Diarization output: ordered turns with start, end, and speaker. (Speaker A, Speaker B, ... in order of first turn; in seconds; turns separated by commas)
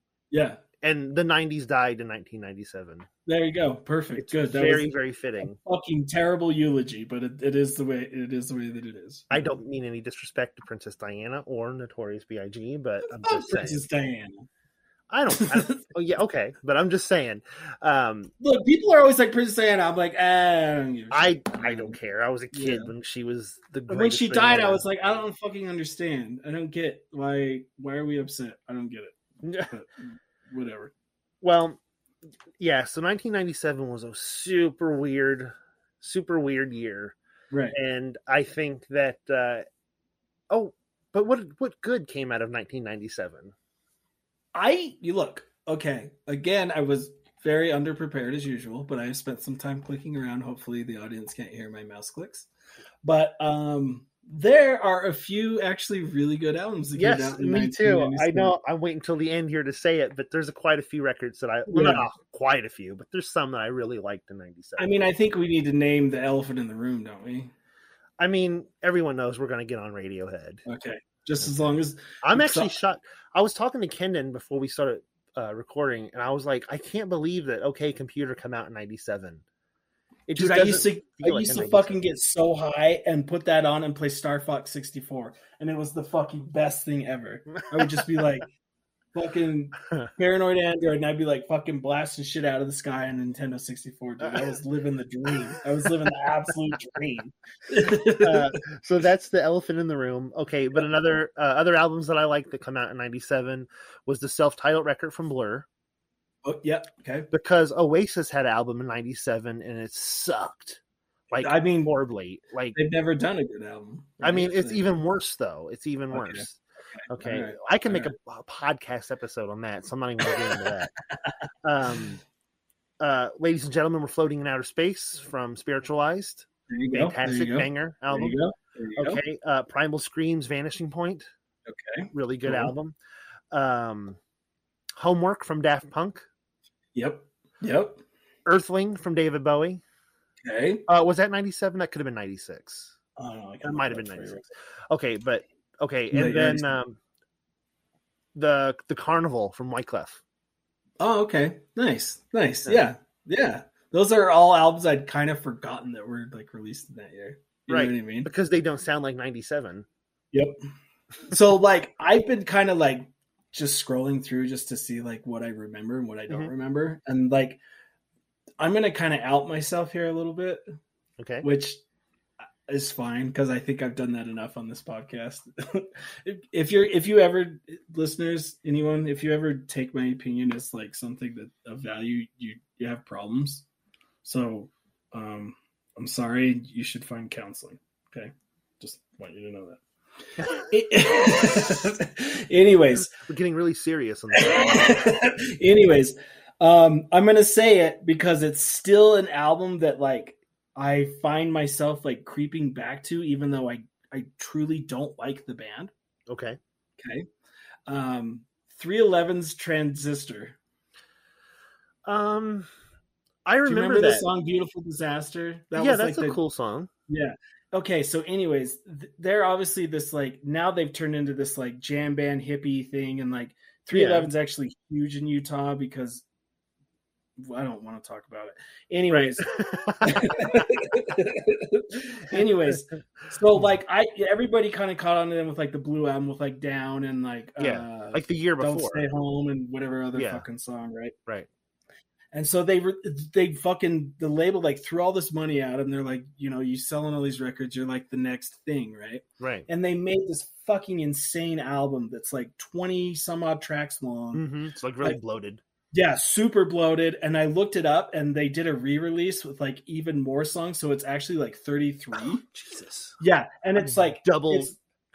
Speaker A: 0.3-0.6, Speaker B: 0.8-3.1, Speaker A: 3.3-4.9, Speaker B: 4.2-5.6, Speaker A: 5.4-9.5, Speaker B: 9.3-13.8, Speaker A: 13.1-14.5, Speaker B: 15.1-18.3, Speaker A: 15.3-15.8, Speaker A: 18.4-22.0, Speaker B: 21.1-24.8, Speaker A: 22.5-22.9, Speaker A: 23.9-30.9, Speaker B: 29.4-29.7, Speaker B: 31.4-31.8, Speaker B: 32.6-37.2, Speaker A: 37.5-37.8, Speaker B: 37.7-39.6, Speaker B: 40.5-43.5, Speaker A: 44.5-52.5, Speaker A: 53.0-58.5, Speaker B: 57.0-64.9, Speaker A: 61.7-62.1, Speaker A: 64.8-67.5, Speaker B: 68.2-70.6, Speaker A: 70.7-72.7, Speaker B: 72.2-79.4, Speaker B: 80.3-82.0, Speaker A: 80.3-88.5, Speaker B: 87.7-88.0, Speaker A: 89.1-98.6, Speaker B: 98.0-105.7, Speaker A: 106.5-107.3, Speaker B: 107.3-110.8, Speaker B: 111.3-112.8, Speaker A: 111.3-111.9, Speaker A: 112.8-114.8, Speaker B: 114.2-120.9, Speaker A: 116.1-118.1, Speaker A: 120.4-121.3, Speaker B: 121.6-122.2, Speaker B: 123.0-128.4, Speaker A: 126.7-129.2, Speaker B: 129.0-131.3, Speaker A: 131.7-132.7, Speaker B: 132.1-133.0, Speaker B: 133.5-134.2, Speaker B: 135.0-136.3, Speaker A: 136.9-138.0, Speaker B: 138.5-139.8, Speaker A: 140.4-140.9, Speaker B: 140.9-142.9, Speaker A: 143.2-144.5, Speaker B: 143.6-147.0, Speaker A: 146.1-146.7, Speaker B: 148.3-150.2, Speaker A: 151.0-158.3, Speaker B: 157.7-159.9, Speaker A: 161.3-167.6, Speaker A: 168.6-170.6, Speaker B: 171.2-171.5, Speaker A: 171.4-171.8, Speaker A: 172.7-183.7, Speaker A: 184.2-189.8, Speaker A: 190.4-193.2, Speaker B: 193.0-195.1, Speaker A: 194.3-205.9, Speaker B: 206.3-206.6, Speaker A: 207.0-207.3, Speaker A: 207.9-210.6, Speaker B: 212.1-212.7, Speaker B: 213.5-214.3, Speaker A: 213.7-216.4, Speaker B: 215.8-216.9, Speaker A: 217.1-226.2, Speaker B: 223.9-224.3, Speaker A: 227.4-241.1, Speaker B: 229.1-230.7, Speaker B: 237.6-239.1, Speaker B: 240.2-240.4, Speaker A: 242.3-254.4, Speaker B: 249.4-249.7, Speaker B: 254.3-255.6, Speaker A: 255.9-262.4, Speaker B: 262.2-263.2, Speaker A: 263.2-264.8, Speaker B: 263.8-264.7